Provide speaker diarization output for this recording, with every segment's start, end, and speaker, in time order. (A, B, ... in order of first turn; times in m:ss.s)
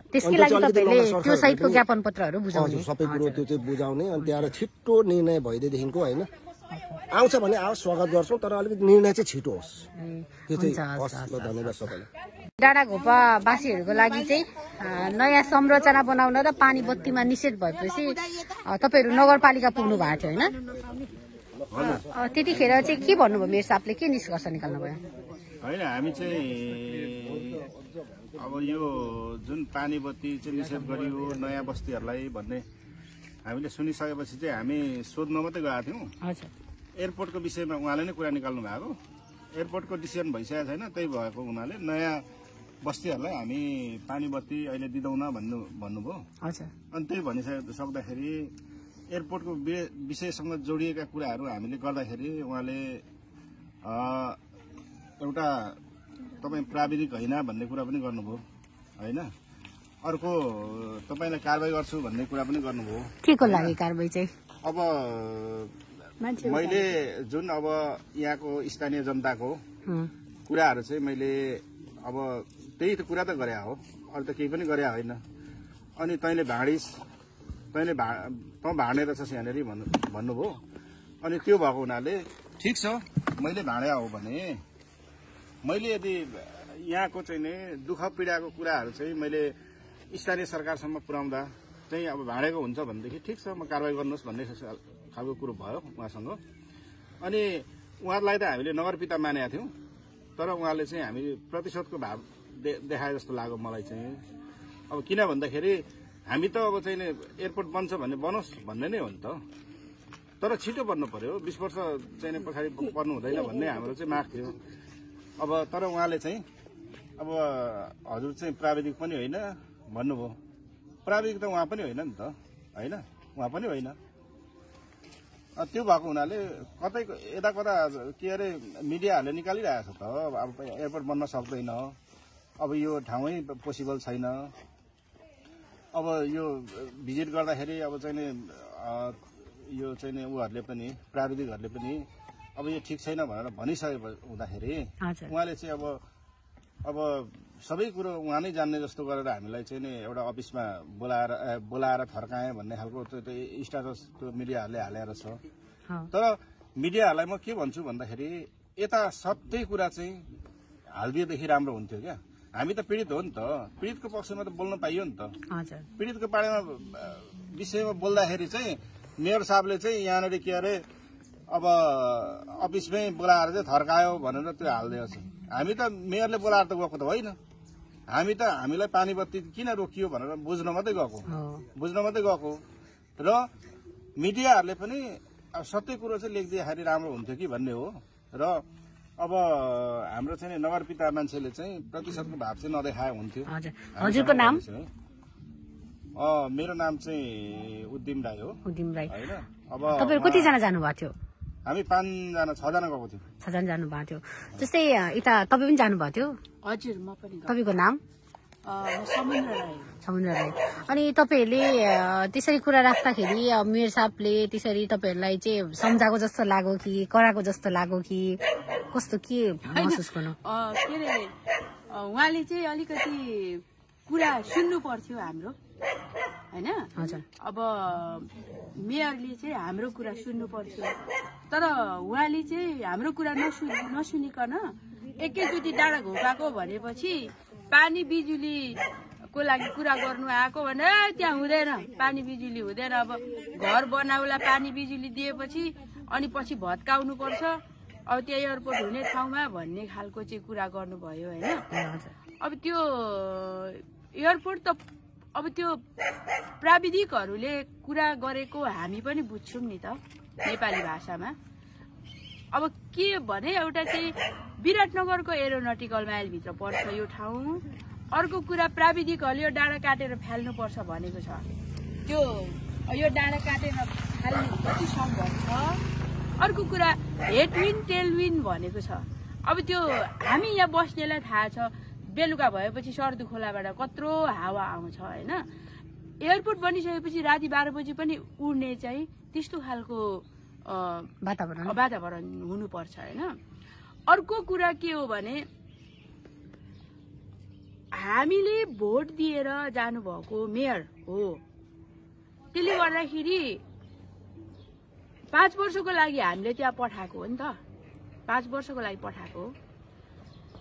0:00.1-0:03.4 A
0:00.2-0:01.8 B
0:02.5-0:06.3 B
0:04.2-0:04.5 A
0:06.7-0:07.0 A
0:07.1-0:09.8 B
0:10.0-0:11.9 A
0:10.5-0:12.1 B
0:12.6-0:20.5 A
0:21.7-0:22.9 C
0:22.1-0:25.0 A
0:25.6-0:27.7 C
0:28.4-0:32.6 C
0:33.4-0:36.1 C
0:36.2-0:36.5 A
0:37.0-0:39.0 C
0:39.6-0:42.2 C
0:42.8-0:46.2 C
0:46.4-0:46.7 A
0:46.9-0:48.5 C
0:49.1-0:53.0 C
0:53.8-0:54.4 C
0:55.2-0:55.8 C
0:56.4-0:58.4 C
0:59.0-0:59.3 C
1:00.0-1:03.8 C
1:03.2-1:04.3 A
1:04.6-1:05.7 C
1:06.2-1:06.9 D
1:06.4-1:09.6 C
1:10.5-1:15.2 C
1:16.0-1:16.9 C
1:17.7-1:20.6 C
1:21.2-1:24.6 C
1:25.6-1:29.5 C
1:30.1-1:36.4 C
1:37.2-1:39.7 C
1:40.4-1:44.2 C
1:44.9-1:49.4 C
1:50.4-1:54.6 C
1:55.4-1:56.4 C
1:57.2-2:00.4 C
2:01.0-2:04.0 C
2:05.6-2:12.0 C
2:12.6-2:14.5 C
2:15.9-2:22.0 C
2:22.6-2:26.0 C
2:25.0-2:25.3 A
2:26.8-2:35.4 C
2:36.1-2:40.2 C
2:40.9-2:45.3 C
2:45.5-2:45.8 A
2:46.0-2:50.8 C
2:51.5-2:57.4 C
2:58.1-3:02.6 C
3:01.3-3:01.6 A
3:04.2-3:08.6 C
3:09.2-3:14.9 C
3:13.5-3:14.6 A
3:16.2-3:20.6 C
3:18.6-3:19.2 A
3:19.9-3:21.1 A
3:21.6-3:23.2 C
3:23.4-3:26.4 A
3:26.6-3:27.6 D
3:27.5-3:28.0 A
3:28.7-3:29.9 D
3:30.0-3:38.4 A
3:38.9-3:40.4 A
3:39.7-3:41.3 D
3:41.9-3:45.6 D
3:46.5-3:46.9 D
3:47.0-3:47.2 A
3:47.4-3:48.3 D
3:48.8-3:50.9 D
3:51.5-3:54.6 D
3:55.2-3:58.8 D
3:59.3-4:07.6 D
4:08.1-4:11.6 D
4:11.7-4:12.1 A
4:12.4-4:14.8 D
4:15.4-4:15.8 D
4:16.6-4:21.4 D
4:22.5-4:31.5 D
4:32.1-4:35.8 D
4:36.4-4:45.4 D
4:46.2-4:51.1 D
4:51.2-4:51.8 A
4:51.6-4:53.3 D
4:54.1-4:55.4 D
4:58.0-5:01.4 D
5:02.5-5:03.6 D
5:05.3-5:07.6 D
5:08.3-5:09.5 D